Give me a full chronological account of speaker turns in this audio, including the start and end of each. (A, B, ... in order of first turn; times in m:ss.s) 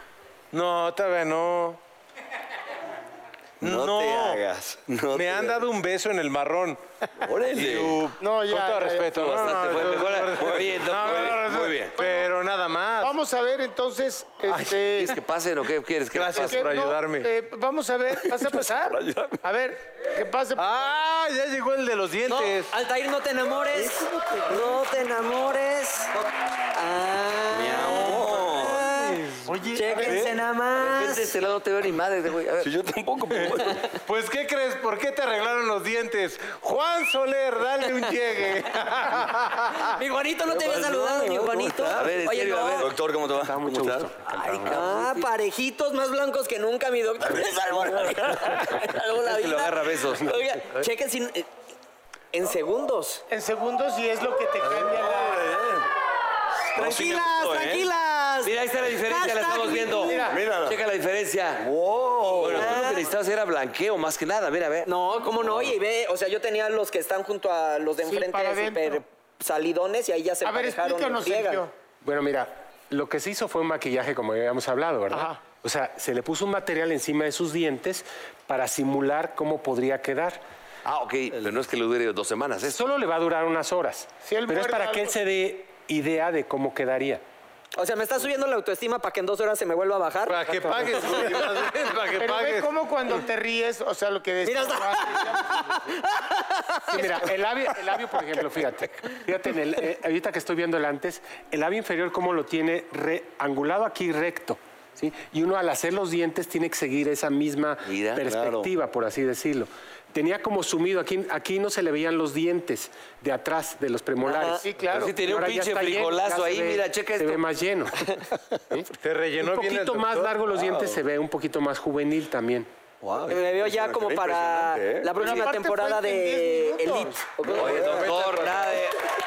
0:00.5-0:01.8 A
0:03.6-0:04.4 A
0:03.6-0:05.6 B
0:05.1-0:13.2 A
0:07.2-0:08.0 B
0:08.2-0:09.4 C
0:09.1-0:11.5 D
0:10.4-0:12.0 B
0:12.0-0:12.3 C
0:13.0-0:15.2 C
0:14.5-0:14.9 A
0:15.0-0:16.6 D
0:16.1-0:17.3 A
0:16.3-0:20.7 C
0:18.3-0:19.4 B
0:20.6-0:22.7 A
0:22.3-0:31.4 E
0:23.8-0:24.5 C
0:27.5-0:28.9 B
0:28.9-0:29.5 A
0:29.5-0:30.3 C
0:30.0-0:30.3 A
0:30.8-0:32.7 D
0:32.6-0:33.8 B
0:34.1-0:39.8 A
0:39.8-0:42.9 E
0:40.5-0:42.1 B
0:41.9-0:42.9 D
0:42.8-0:44.9 B
0:43.2-0:44.6 F
0:44.5-0:45.2 D
0:44.6-0:51.5 E
0:47.2-0:48.8 B
0:48.3-0:50.4 D
0:52.3-0:53.2 E
0:53.3-0:55.5 C
0:54.6-0:55.9 B
0:56.7-0:57.9 B
0:56.8-1:00.4 E
0:58.4-1:01.7 D
1:00.3-1:00.8 B
1:01.6-1:02.8 B
1:02.4-1:04.9 D
1:02.4-1:03.1 E
1:04.8-1:11.6 E
1:05.4-1:05.8 B
1:08.1-1:09.0 C
1:10.4-1:11.7 C
1:12.0-1:20.4 F
1:15.1-1:15.4 C
1:20.8-1:22.8 D
1:22.6-1:27.2 F
1:24.3-1:25.1 C
1:27.8-1:30.4 E
1:30.3-1:32.7 A
1:31.0-1:31.7 E
1:32.2-1:35.9 C
1:34.5-1:37.2 E
1:36.9-1:58.2 F
1:47.8-1:48.6 D
1:54.3-1:54.6 E
1:54.4-1:55.2 C
1:54.9-1:57.4 D
1:59.0-2:00.4 A
1:59.4-2:02.7 F
2:00.6-2:01.0 B
2:03.0-2:05.2 B
2:03.3-2:08.1 E
2:05.2-2:07.3 C
2:07.4-2:09.0 D
2:07.6-2:08.2 B
2:07.8-2:08.8 A